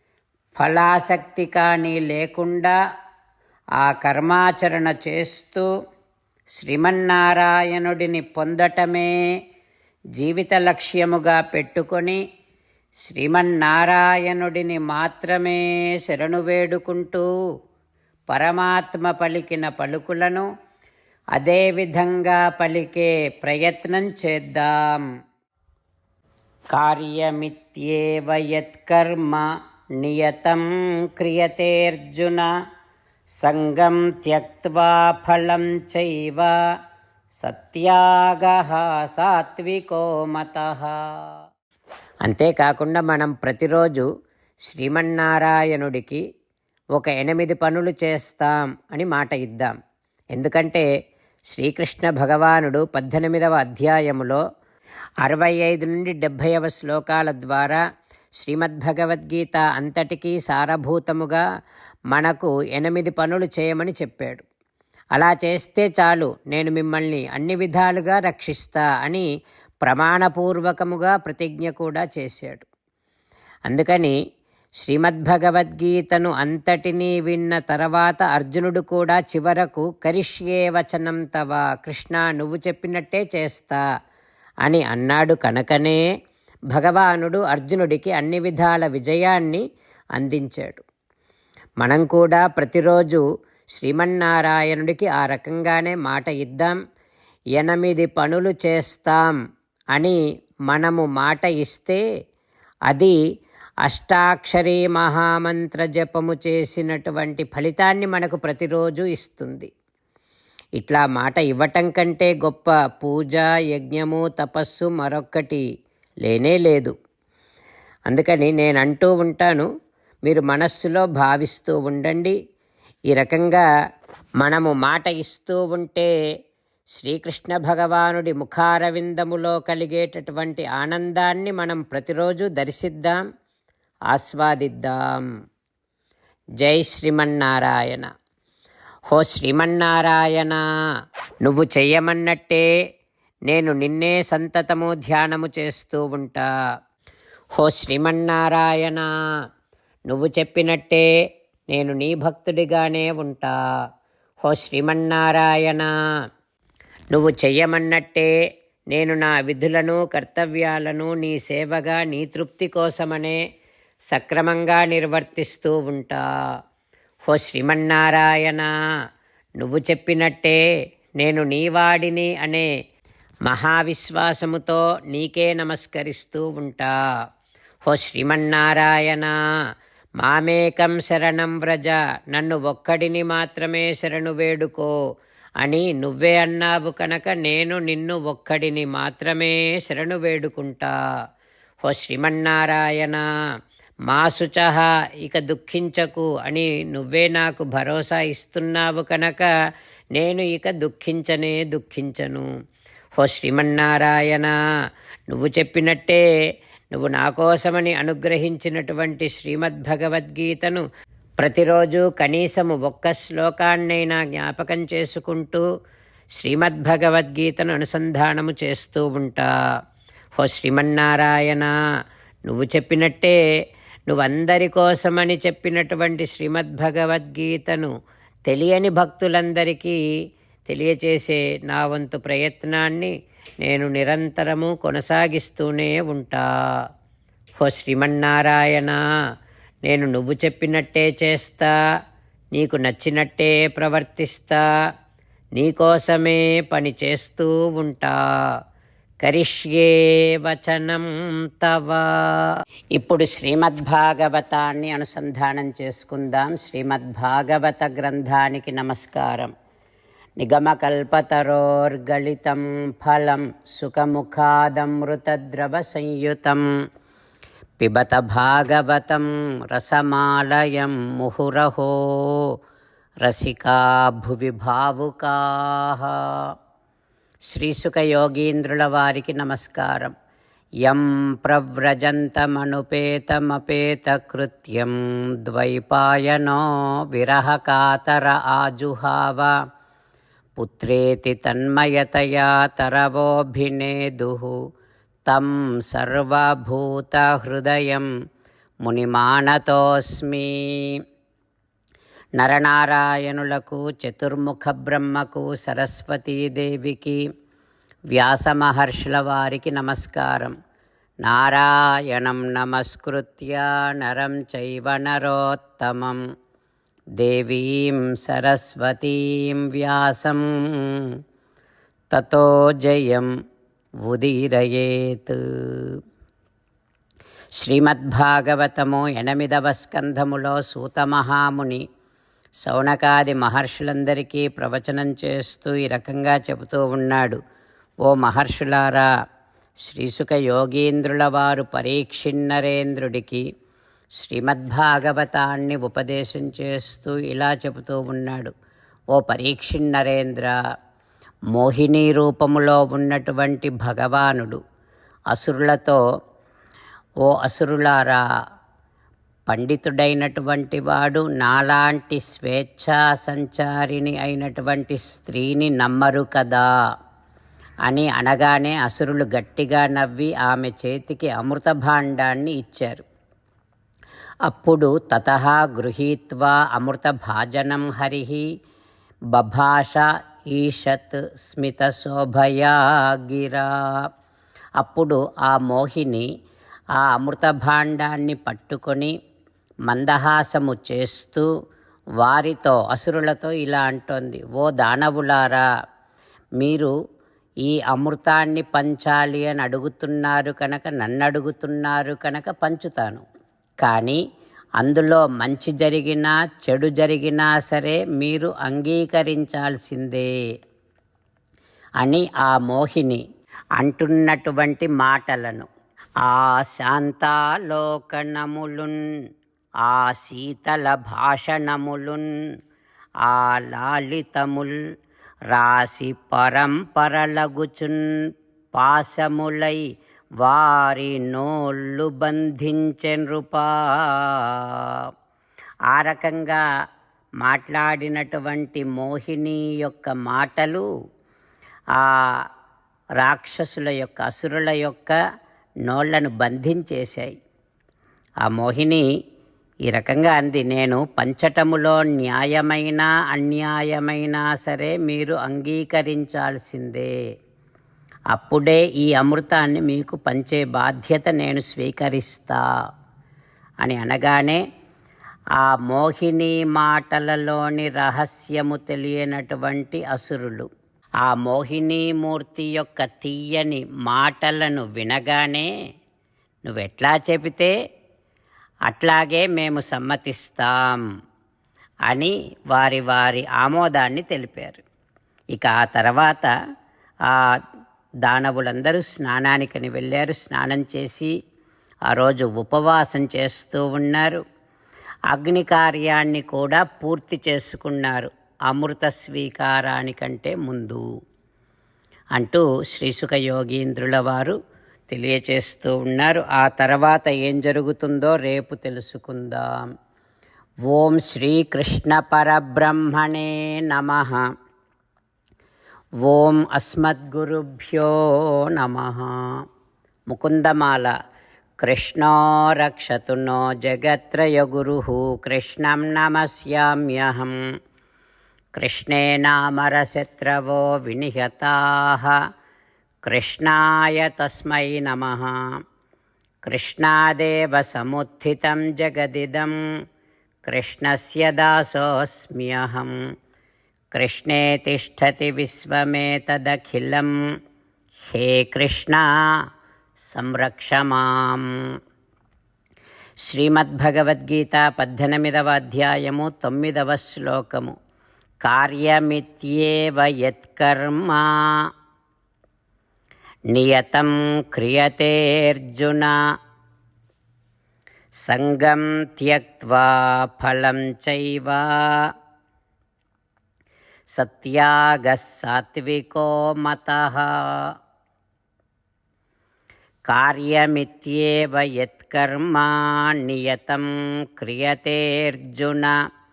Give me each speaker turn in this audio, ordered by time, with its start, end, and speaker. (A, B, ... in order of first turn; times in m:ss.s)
0:00.6-0:02.8 A
0:03.8-0:05.7 A
0:06.6-0:09.1 A
0:10.2-0:12.2 A
0:13.0-0:17.3 A
0:18.3-0:20.5 A
0:21.4-0:25.0 A
0:26.7-0:29.5 A
0:30.0-0:30.6 A
0:31.2-0:32.5 A
0:33.4-0:36.6 A
0:37.4-0:41.0 A
0:42.2-0:44.1 A
0:44.7-0:46.2 A
0:47.0-0:49.7 A
0:50.4-0:50.9 A
0:51.5-0:54.4 A
0:55.2-0:57.8 A
0:58.4-1:01.4 A
1:02.1-1:04.4 A
1:05.2-1:09.3 A
1:09.8-1:12.7 A
1:13.7-1:14.2 A
1:14.8-1:23.8 A
1:24.6-1:26.0 A
1:26.7-1:29.6 A
1:30.2-1:30.8 A
1:31.8-1:33.2 A
1:33.8-1:36.8 A
1:37.6-1:39.4 A
1:40.7-1:42.0 A
1:42.9-1:43.2 A
1:43.8-1:49.7 A
1:50.8-1:55.6 A
1:56.2-1:56.9 A
1:58.1-1:59.7 A
2:00.3-2:02.4 A
2:03.1-2:03.6 A
2:04.4-2:06.1 A
2:07.0-2:13.2 A
2:14.1-2:15.3 A
2:16.6-2:18.1 A
2:19.1-2:20.6 A
2:21.4-2:22.6 A
2:23.5-2:26.5 A
2:27.6-2:29.1 A
2:30.1-2:31.1 A
2:31.7-2:33.6 A
2:34.4-2:35.9 A
2:37.1-2:38.3 A
2:38.9-2:43.4 A
2:44.1-2:46.3 A
2:47.2-2:48.7 A
2:49.6-2:50.6 A
2:51.2-2:52.7 A
2:53.5-2:57.0 A
2:57.8-2:59.3 A
3:00.2-3:04.9 A
3:05.6-3:10.9 A
3:11.8-3:13.2 A
3:14.1-3:19.5 A
3:20.2-3:22.5 A
3:23.2-3:24.5 A
3:25.3-3:26.2 A
3:26.9-3:30.8 A
3:31.4-3:35.6 A
3:36.4-3:39.5 A
3:40.4-3:41.7 A
3:42.5-3:43.4 A
3:44.1-3:47.9 A
3:48.5-3:50.0 A
3:50.7-3:53.1 A
3:53.6-3:56.4 A
3:57.6-3:59.0 A
3:59.9-4:01.7 A
4:02.5-4:04.6 A
4:05.6-4:08.2 A
4:09.2-4:12.2 A
4:13.0-4:19.5 A
4:20.4-4:26.6 A
4:27.8-4:32.5 A
4:33.2-4:36.5 A
4:37.5-4:40.1 A
4:40.8-4:44.9 A
4:45.4-4:49.5 A
4:50.6-4:54.5 A
4:55.3-4:58.1 A
4:58.8-5:01.0 A
5:02.4-5:07.2 A
5:08.1-5:10.5 A
5:11.2-5:16.2 A
5:17.2-5:21.1 A
5:22.1-5:23.3 A
5:24.0-5:25.9 A
5:27.6-5:31.8 A
5:32.6-5:37.4 A
5:38.0-5:39.1 A
5:39.8-5:43.4 A
5:44.2-5:48.5 A
5:49.1-5:50.6 A
5:51.5-5:54.6 A
5:55.3-5:56.0 A
5:57.2-5:58.2 A
5:59.5-6:06.7 A
6:07.9-6:13.0 A
6:14.5-6:18.4 A
6:19.3-6:23.7 A
6:24.8-6:26.3 A
6:27.0-6:29.1 A
6:29.9-6:31.5 A
6:32.2-6:35.6 A
6:36.6-6:36.9 A
6:37.6-6:43.2 A
6:43.8-6:44.2 A
6:44.8-6:50.3 A
6:52.0-6:53.2 A
6:53.8-6:55.7 A
6:56.2-6:59.0 A
6:59.8-7:02.3 A
7:03.2-7:04.7 A
7:05.5-7:08.0 A
7:08.8-7:09.8 A
7:10.4-7:15.1 A
7:15.9-7:16.6 A
7:17.4-7:20.9 A
7:23.2-7:25.2 A
7:25.9-7:27.4 A
7:28.4-7:29.0 A
7:29.9-7:37.1 A
7:38.3-7:42.6 A
7:43.8-7:44.6 A
7:45.6-7:50.7 A
7:51.2-7:55.7 A
7:56.7-7:57.7 A
7:58.9-8:01.0 A
8:02.1-8:04.8 A
8:05.5-8:06.5 A
8:08.2-8:11.3 A
8:12.1-8:14.4 A
8:15.3-8:21.0 A
8:22.4-8:24.6 A
8:25.1-8:29.7 A
8:30.9-8:34.4 A
8:36.2-8:39.4 A
8:40.3-8:41.1 A
8:41.8-8:47.6 A
8:48.8-8:52.4 A
8:53.3-8:55.5 A
8:56.7-8:59.7 A
9:00.7-9:03.2 A
9:04.1-9:07.3 A
9:08.3-9:09.2 A
9:10.3-9:11.7 A
9:13.5-9:18.0 A
9:18.6-9:21.5 A
9:23.7-9:26.4 A
9:28.4-9:32.3 A
9:34.4-9:37.5 A
9:40.3-9:46.1 A